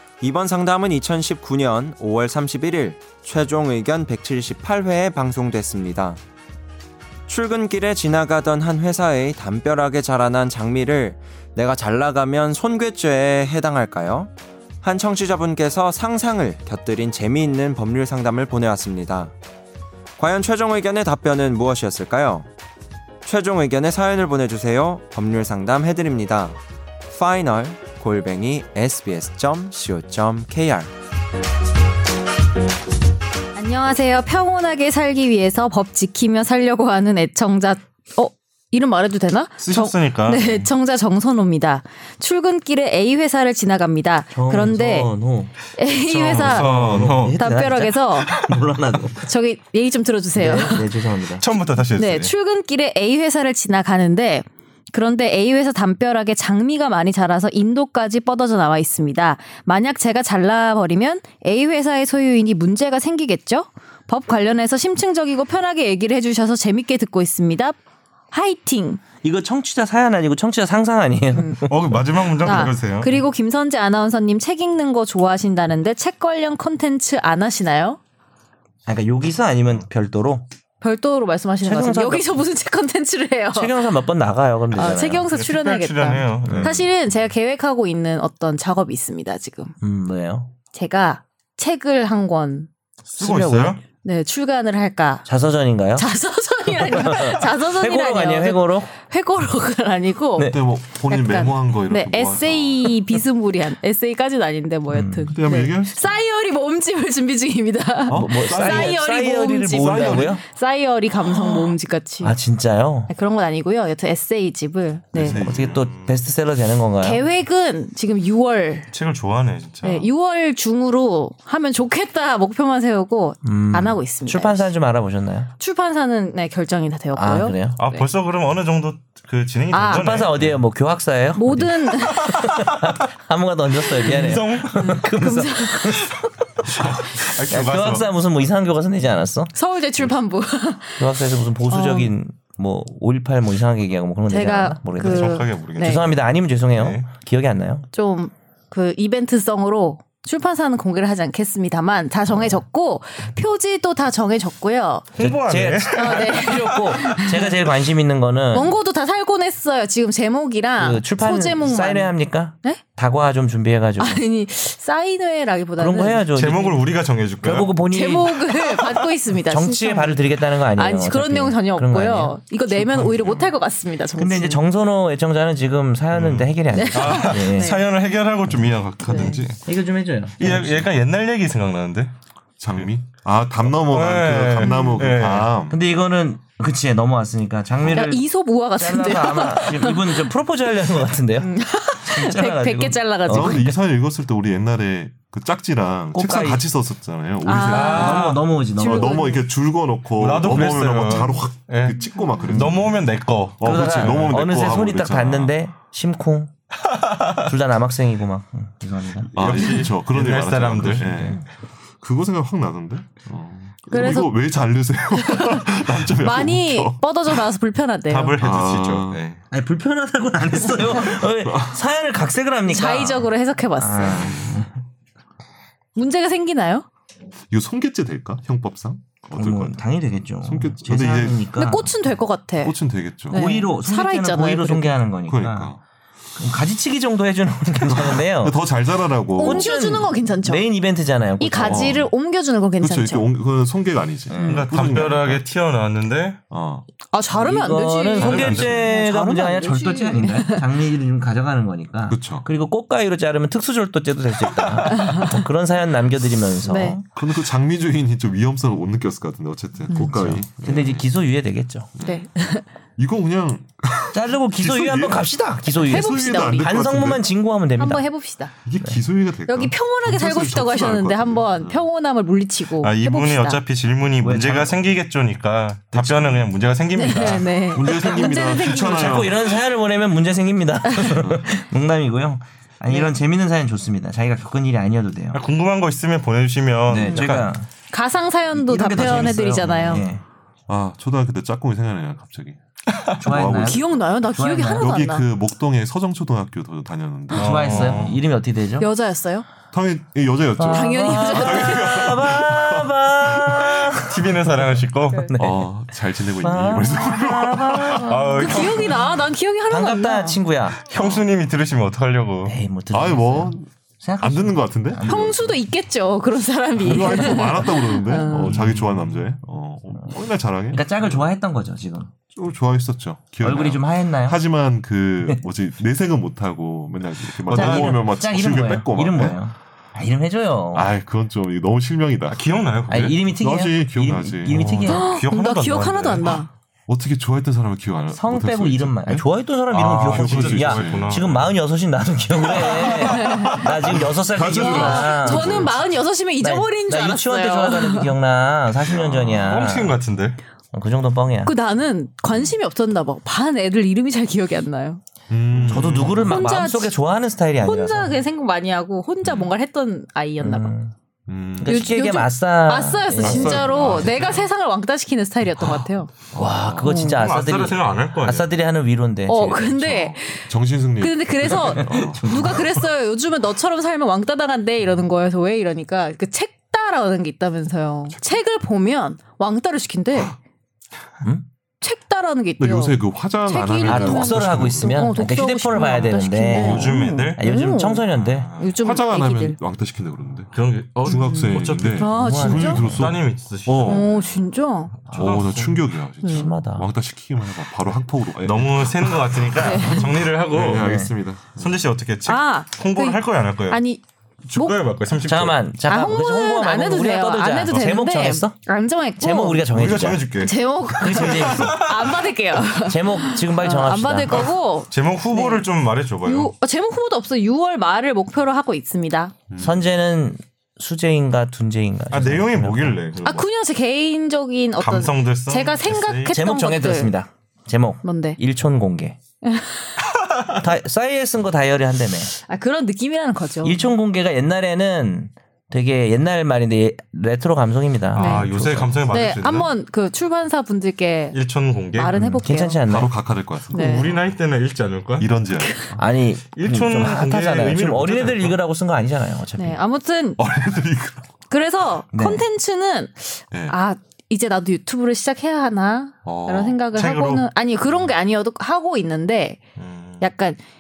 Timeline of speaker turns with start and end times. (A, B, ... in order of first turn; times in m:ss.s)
0:00.2-0:06.2 A
0:07.3-0:14.3 A
0:14.8-0:19.3 A
0:20.2-0:22.5 A
0:23.2-0:26.6 A
0:27.1-0:30.9 A
0:33.6-0:45.1 B
0:39.6-0:40.7 C
0:44.3-0:45.5 D
0:45.7-0:46.7 B
0:46.1-0:47.4 E
0:46.3-0:47.4 C
0:46.7-0:49.2 D
0:47.4-0:48.4 B
0:49.2-0:51.2 B
0:50.4-0:51.5 D
0:51.4-0:52.3 C
0:52.0-1:07.8 B
1:08.3-1:09.0 B
1:09.2-1:12.0 D
1:11.3-1:11.6 B
1:11.7-1:13.2 C
1:12.4-1:18.0 B
1:18.9-1:20.5 D
1:20.8-1:23.8 B
1:21.6-1:22.4 D
1:23.5-1:25.3 D
1:24.7-1:29.8 B
1:25.3-1:26.9 C
1:26.4-1:26.8 D
1:29.8-1:30.5 D
1:30.7-1:32.7 B
1:33.1-1:33.8 C
1:33.2-1:33.8 D
1:34.0-1:35.3 B
1:35.3-1:36.1 D
1:36.0-1:52.4 B
1:36.7-1:38.9 D
1:40.4-1:43.2 E
1:44.9-1:45.4 D
1:45.3-1:46.2 E
1:48.1-1:49.1 E
1:48.1-1:50.4 D
1:49.7-1:50.4 E
1:51.3-1:53.1 D
1:53.1-1:55.4 B
1:55.1-1:55.9 E
1:55.2-1:57.2 D
1:55.8-1:56.2 C
1:57.0-1:58.9 B
1:58.9-2:00.1 C
1:59.8-2:04.7 B
2:03.4-2:05.5 D
2:05.6-2:08.1 B
2:07.1-2:07.8 D
2:07.8-2:10.6 C
2:09.7-2:10.1 B
2:09.8-2:16.2 D
2:11.4-2:12.4 B
2:12.3-2:12.9 C
2:14.0-2:15.0 C
2:14.1-2:16.1 B
2:16.8-2:18.1 C
2:16.8-2:19.5 D
2:19.5-2:22.1 B
2:21.0-2:27.9 D
2:24.3-2:26.1 B
2:25.0-2:27.1 C
2:27.9-2:35.1 B
2:35.2-2:37.0 C
2:35.2-2:38.8 D
2:36.0-2:37.6 B
2:38.5-2:42.8 B
2:40.8-2:44.2 D
2:44.0-2:46.3 B
2:45.8-2:46.9 D
2:46.3-2:47.7 C
2:47.4-2:48.4 D
2:47.9-2:54.6 B
2:49.4-2:53.5 D
2:54.2-2:57.8 D
2:56.1-2:59.6 C
2:56.7-2:57.9 B
2:59.1-2:59.4 B
2:59.1-3:00.9 D
3:00.4-3:02.1 C
3:02.6-3:05.8 E
3:03.7-3:05.5 C
3:04.6-3:05.0 B
3:05.7-3:08.2 D
3:07.9-3:10.3 B
3:08.8-3:13.8 D
3:11.4-3:13.7 B
3:13.3-3:25.6 E
3:16.1-3:16.7 D
3:17.4-3:19.4 B
3:17.6-3:18.4 C
3:17.9-3:19.2 D
3:20.1-3:24.4 C
3:22.4-3:22.7 D
3:23.6-3:26.5 D
3:27.0-3:27.4 C
3:27.4-3:29.9 D
3:29.3-3:31.4 E
3:29.3-3:31.3 C
3:31.0-3:31.4 D
3:32.0-3:37.5 E
3:33.9-3:34.4 B
3:35.2-3:38.4 B
3:38.1-3:39.2 E
3:38.1-3:39.4 C
3:39.5-3:44.8 D
3:40.7-3:41.8 E
3:42.7-3:44.4 B
3:44.1-3:44.4 E
3:46.0-3:46.9 B
3:47.5-3:51.5 E
3:49.4-3:51.9 D
3:51.6-3:52.8 B
3:52.6-3:53.6 E
3:53.3-3:55.0 B
3:53.3-3:55.8 D
3:55.3-3:55.8 E
3:56.4-3:58.6 D
3:57.8-3:59.9 E
3:59.4-4:00.7 B
3:59.4-4:02.0 D
4:01.4-4:03.3 B
4:01.6-4:02.1 E
4:02.8-4:05.5 E
4:04.3-4:04.7 D
4:04.4-4:06.4 C
4:06.5-4:06.9 E
4:07.1-4:10.7 B
4:07.3-4:17.2 D
4:08.2-4:09.0 E
4:08.2-4:08.8 C
4:12.1-4:12.5 E
4:14.9-4:15.3 B
4:16.7-4:17.0 B
4:17.2-4:21.1 E
4:19.9-4:20.2 B
4:19.9-4:21.9 D
4:22.0-4:22.2 E
4:22.0-4:22.7 B
4:23.0-4:27.3 E
4:24.1-4:28.0 D
4:25.9-4:26.8 B
4:27.8-4:28.5 B
4:28.6-4:31.8 E
4:29.5-4:33.6 B
4:32.8-4:37.7 C
4:34.2-4:34.8 D
4:35.9-4:36.5 E
4:37.0-4:39.5 B
4:37.7-4:39.5 E
4:38.2-4:45.4 D
4:40.9-4:41.3 B
4:42.9-4:43.1 B
4:45.3-4:47.6 C
4:46.9-4:47.7 D
4:47.0-4:47.3 B
4:47.9-4:50.1 B
4:48.5-4:50.2 D
4:50.7-4:52.6 E
4:53.2-4:54.0 E
4:53.2-4:55.0 D
4:53.5-4:55.3 B
4:54.8-4:58.1 E
4:57.3-4:58.9 D
4:57.3-4:58.2 C
4:58.8-4:59.5 B
4:59.7-5:03.8 E
5:00.6-5:04.2 D
5:00.7-5:02.3 B
5:03.9-5:05.3 C
5:05.3-5:05.6 D
5:05.4-5:08.1 E
5:06.4-5:09.0 D
5:08.0-5:09.1 C
5:08.2-5:10.4 B
5:09.7-5:10.9 D
5:10.8-5:12.6 C
5:10.9-5:11.2 E
5:12.4-5:15.6 D
5:12.9-5:15.1 E
5:15.0-5:18.6 B
5:16.8-5:21.3 E
5:20.7-5:22.1 D
5:22.3-5:29.4 E
5:23.4-5:24.4 D
5:27.5-5:28.1 C
5:27.5-5:30.9 D
5:30.7-5:35.1 E
5:32.3-5:33.1 C
5:32.9-5:35.1 D
5:34.9-5:36.5 B
5:35.0-5:36.4 C
5:36.9-5:39.3 E
5:38.1-5:45.7 D
5:39.7-5:41.6 C
5:40.0-5:41.2 E
5:42.7-5:48.1 B
5:43.0-5:43.3 C
5:43.9-5:45.8 E
5:46.4-5:50.0 D
5:48.8-5:49.6 E
5:49.4-5:50.4 C
5:50.7-5:51.5 D
5:51.4-5:55.0 B
5:55.3-5:56.4 E
5:55.5-5:56.1 C
5:55.6-5:58.2 D
5:56.2-5:57.0 B
5:57.6-6:00.7 B
6:00.4-6:00.9 D
6:01.3-6:02.0 E
6:01.6-6:03.8 D
6:01.7-6:06.1 B
6:03.2-6:04.4 E
6:03.5-6:04.4 C
6:06.3-6:07.0 E
6:06.4-6:10.2 D
6:06.8-6:07.3 B
6:07.1-6:08.5 C
6:09.3-6:20.4 B
6:10.0-6:12.9 E
6:12.0-6:12.4 D
6:21.8-6:29.6 B
6:22.6-6:26.9 E
6:23.8-6:28.5 D
6:26.5-6:27.4 C
6:28.1-6:28.8 C
6:28.8-6:34.1 E
6:30.5-6:32.1 C
6:31.2-6:32.8 B
6:32.0-6:33.1 D
6:32.7-6:34.2 C
6:33.8-6:35.0 B
6:35.1-6:35.9 C
6:35.1-6:41.8 E
6:36.2-6:36.5 B
6:36.2-6:36.9 D
6:38.4-6:40.9 C
6:39.6-6:40.1 B
6:40.8-6:41.1 D
6:41.6-6:43.8 C
6:42.3-6:44.0 B
6:44.4-6:45.6 C
6:44.5-6:44.8 B
6:45.2-6:48.6 D
6:45.9-6:49.7 B
6:49.2-6:50.3 D
6:49.7-6:52.3 C
6:50.4-6:55.7 B
6:50.9-6:51.8 D
6:52.8-6:54.5 D
6:54.4-6:56.5 C
6:56.2-6:59.3 B
6:59.5-6:59.9 E
6:59.6-7:03.0 D
7:02.1-7:03.5 C
7:03.2-7:07.2 B
7:04.8-7:06.4 C
7:06.3-7:09.2 D
7:08.0-7:08.4 B
7:09.4-7:09.9 B
7:10.5-7:12.3 D
7:12.5-7:13.9 B
7:13.6-7:19.0 D
7:18.1-7:19.7 C
7:18.2-7:18.5 B
7:19.1-7:21.4 B
7:21.3-7:22.2 C
7:22.0-7:22.8 B
7:22.2-7:24.4 E
7:22.4-7:23.2 D
7:23.7-7:24.1 B
7:23.7-7:25.3 C
7:25.2-7:26.0 E
7:26.0-7:29.8 D
7:26.5-7:28.6 C
7:29.6-7:30.4 B
7:30.4-7:31.3 E
7:31.5-7:39.6 B
7:32.1-7:32.5 D
7:33.5-7:33.8 E
7:36.2-7:36.8 E
7:36.9-7:37.5 C
7:39.8-7:40.3 C
7:40.2-7:40.6 B